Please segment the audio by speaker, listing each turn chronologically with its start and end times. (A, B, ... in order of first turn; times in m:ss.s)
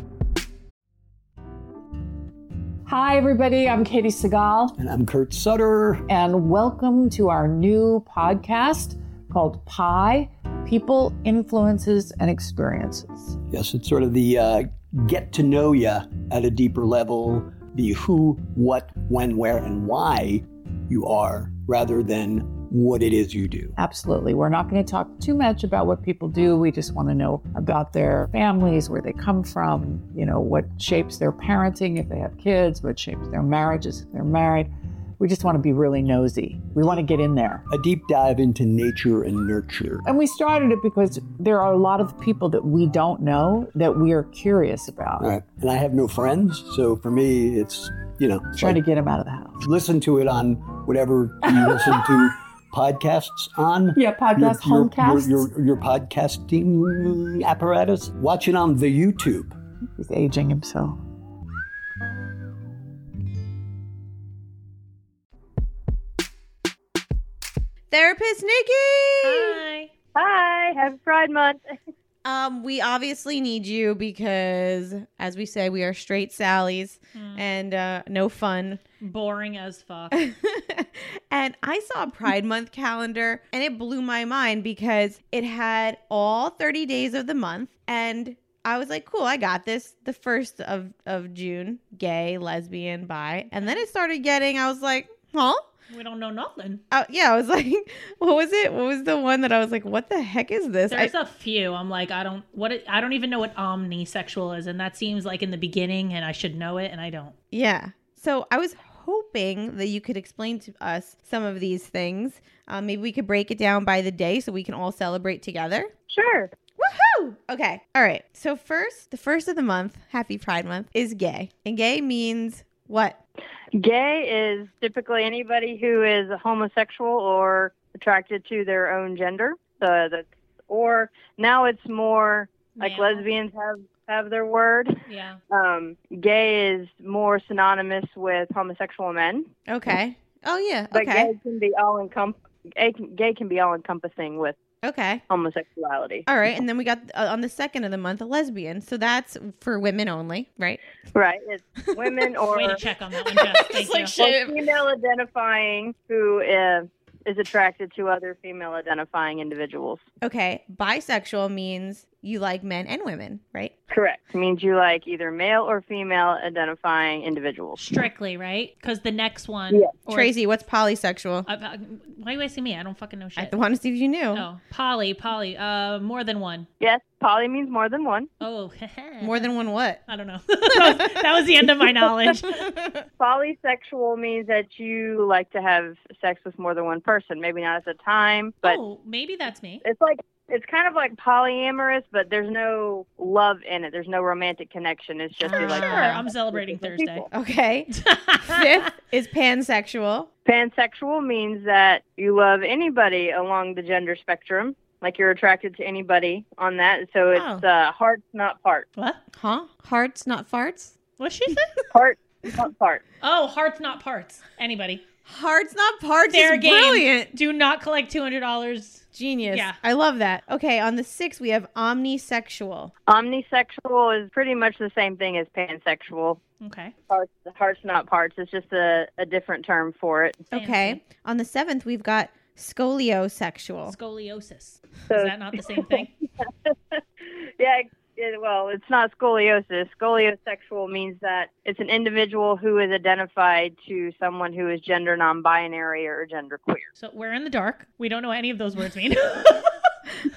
0:02.8-0:04.7 A
0:04.8-0:06.0 B
0:06.1-0:13.4 A
0:13.5-0:23.7 B
0:23.8-0:37.6 A
0:37.7-0:40.0 B
0:40.0-0:45.3 A
0:45.2-0:48.8 B
0:48.6-0:49.6 A
0:49.6-0:59.6 B
0:51.4-0:52.3 A
0:53.9-0:55.5 A
1:00.0-1:01.0 A
1:07.9-1:09.6 C
1:09.2-1:09.9 D
1:10.1-1:11.7 E
1:12.2-1:18.8 C
1:17.1-1:17.4 D
1:19.0-1:20.2 D
1:20.1-1:35.7 C
1:35.9-1:36.8 D
1:36.9-1:41.1 C
1:40.9-1:47.3 D
1:47.5-1:55.9 C
1:56.1-1:56.5 E
1:56.8-2:03.2 C
2:03.7-2:15.0 E
2:12.8-2:13.2 D
2:15.1-2:15.4 D
2:15.5-2:19.5 E
2:19.7-2:21.3 C
2:20.9-2:24.6 E
2:24.8-2:25.2 C
2:25.3-2:26.2 E
2:26.3-2:30.8 C
2:31.1-2:32.8 E
2:32.5-2:34.2 D
2:33.2-2:34.7 C
2:34.2-2:40.0 E
2:40.2-2:43.7 C
2:43.9-2:47.8 E
2:47.8-2:50.3 D
2:50.1-2:51.5 C
2:51.5-2:53.6 D
2:53.4-2:54.4 C
2:54.3-2:56.7 D
2:56.8-2:58.3 E
2:58.4-2:59.5 D
2:59.2-3:00.0 C
3:00.1-3:02.6 D
3:00.7-3:03.0 C
3:03.2-3:08.8 E
3:08.6-3:09.8 D
3:09.8-3:17.3 E
3:15.4-3:16.2 C
3:15.4-3:17.3 D
3:17.3-3:20.3 C
3:17.9-3:18.9 D
3:20.4-3:28.9 E
3:27.3-3:27.6 C
3:29.3-3:30.9 C
3:31.2-3:31.8 D
3:31.9-3:33.0 E
3:33.2-3:35.0 D
3:35.2-3:37.3 C
3:36.3-3:39.8 D
3:39.1-3:42.9 C
3:43.1-3:46.4 E
3:46.6-3:46.9 D
3:47.1-3:50.4 E
3:50.5-3:54.0 C
3:50.5-3:51.0 D
3:53.8-3:56.1 D
3:55.1-4:06.9 E
4:07.0-4:09.8 D